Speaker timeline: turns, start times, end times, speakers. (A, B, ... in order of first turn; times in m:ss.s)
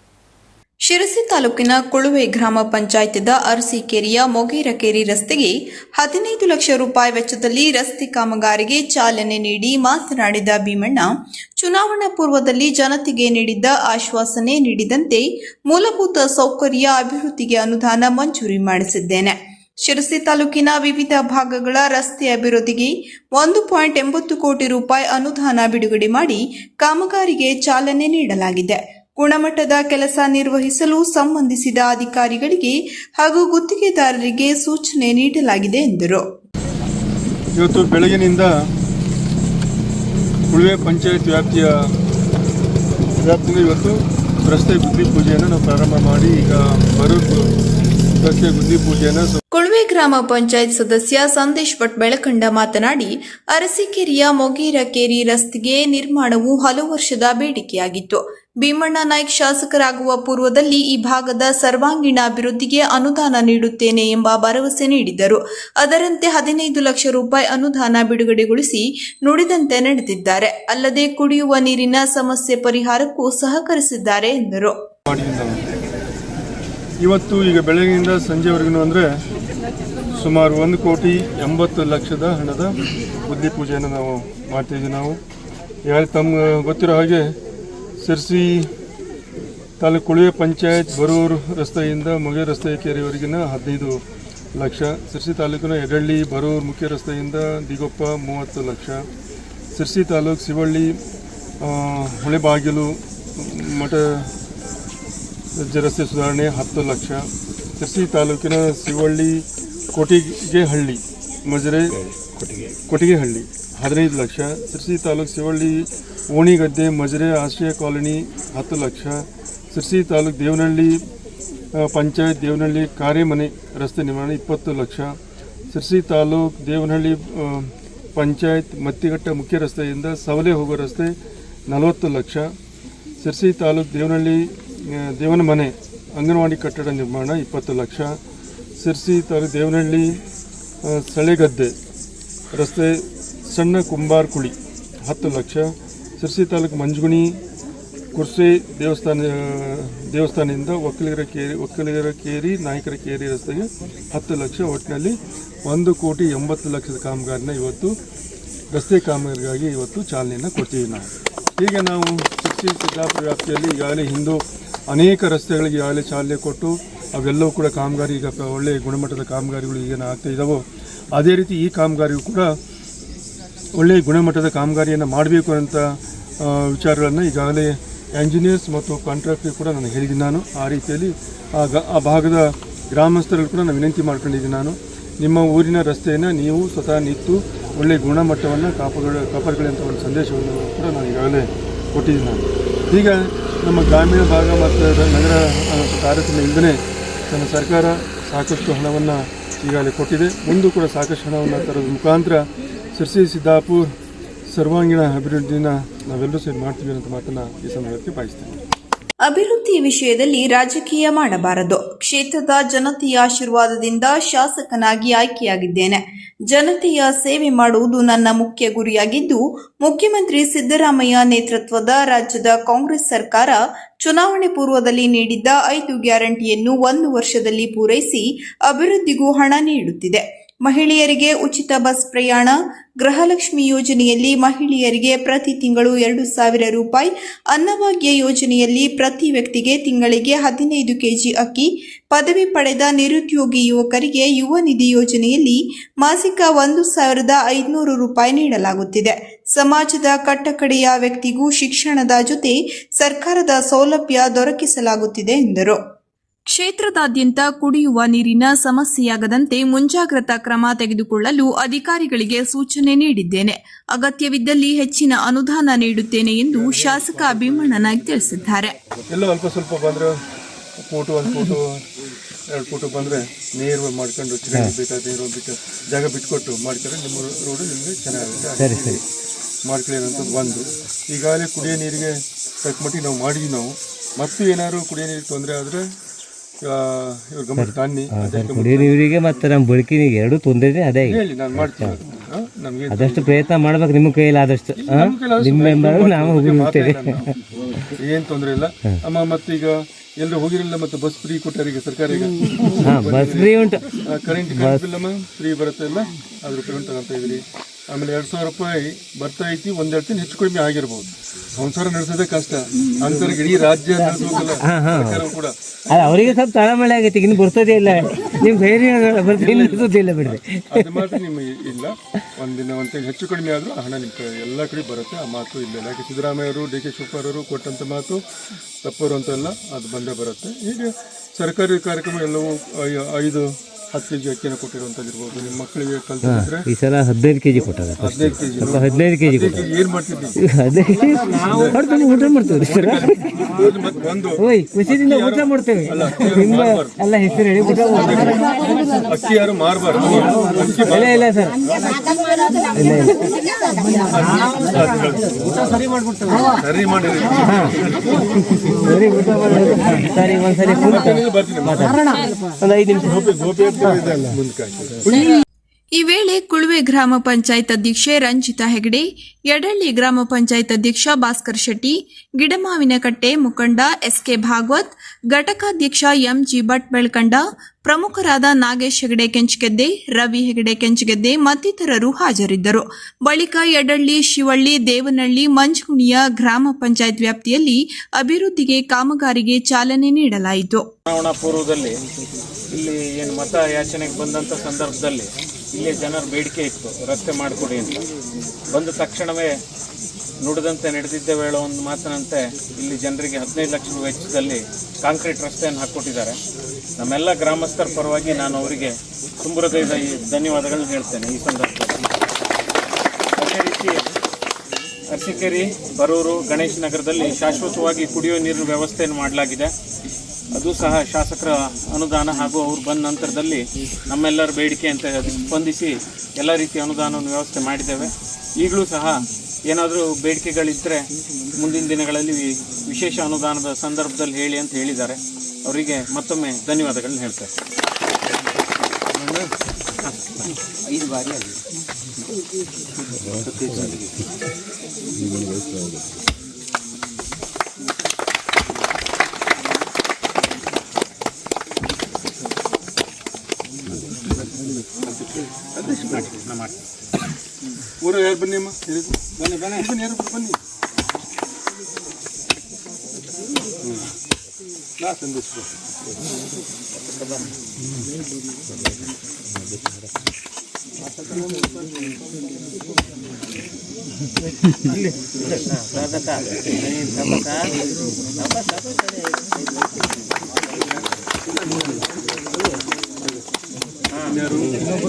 0:00.9-0:36.2 A
0:37.6-0:38.6 B
0:40.5-0:41.8 B
0:43.2-0:47.5 B
0:48.2-0:49.4 B
0:49.6-1:14.8 A
1:15.1-1:15.6 B
1:17.0-1:19.1 B
1:20.1-1:25.2 B
1:25.8-1:27.4 B
1:28.0-1:28.7 B
1:29.8-1:34.0 B
1:34.6-1:39.1 B
1:39.8-1:41.0 B
1:41.6-1:44.3 B
1:45.6-1:47.3 B
1:47.8-2:01.0 B
2:01.8-2:05.2 B
2:05.7-2:11.1 B
2:11.7-2:12.5 B
2:13.2-2:18.2 B
2:18.8-2:20.2 B
2:20.8-2:21.8 B
2:22.5-2:27.4 B
2:28.2-2:37.9 B
2:38.7-2:50.6 B
2:51.2-2:52.5 B
2:53.8-3:23.9 B
3:24.5-3:28.6 B
3:29.2-4:15.8 A
4:16.5-4:28.8 A
4:29.1-4:30.2 B
4:30.8-4:31.8 B
4:32.5-4:39.0 B
4:38.6-4:39.0 C
4:39.7-4:45.8 B
4:46.6-4:49.0 B
4:47.6-4:52.0 C
4:51.1-4:53.4 B
4:52.9-4:57.2 C
4:54.8-4:57.3 B
4:58.0-5:15.6 B
5:02.7-5:03.9 C
5:04.5-5:04.8 C
5:14.0-5:15.2 C
5:15.9-5:21.0 C
5:19.4-5:28.2 B
5:28.8-5:36.7 B
5:36.2-5:39.6 C
5:38.0-5:40.4 B
5:40.4-5:43.5 C
5:41.4-5:41.8 B
5:42.6-5:47.0 B
5:44.4-5:48.4 C
5:47.9-5:51.3 B
5:50.2-5:51.6 C
5:52.7-5:53.4 C
5:54.0-5:58.2 B
5:57.4-5:57.8 C
5:58.5-6:02.0 C
6:00.9-6:02.0 B
6:02.6-6:03.1 C
6:03.1-6:05.2 B
6:05.1-6:05.4 A
6:06.0-6:30.9 A
6:31.1-6:31.9 D
6:32.7-6:38.0 D
6:38.7-6:39.5 D
6:40.4-6:46.4 D
6:47.0-6:52.0 D
6:53.4-6:54.0 D
6:55.1-6:59.7 D
7:00.6-7:17.5 D
7:21.0-7:21.4 D
7:23.6-7:24.0 D
7:35.0-7:36.3 B
7:35.9-7:36.8 D
7:38.0-7:40.6 B
7:39.4-7:39.9 D
7:45.0-7:45.7 B
7:47.2-7:47.4 D
7:55.4-7:57.8 D
7:58.4-7:59.7 D
8:04.3-8:04.9 B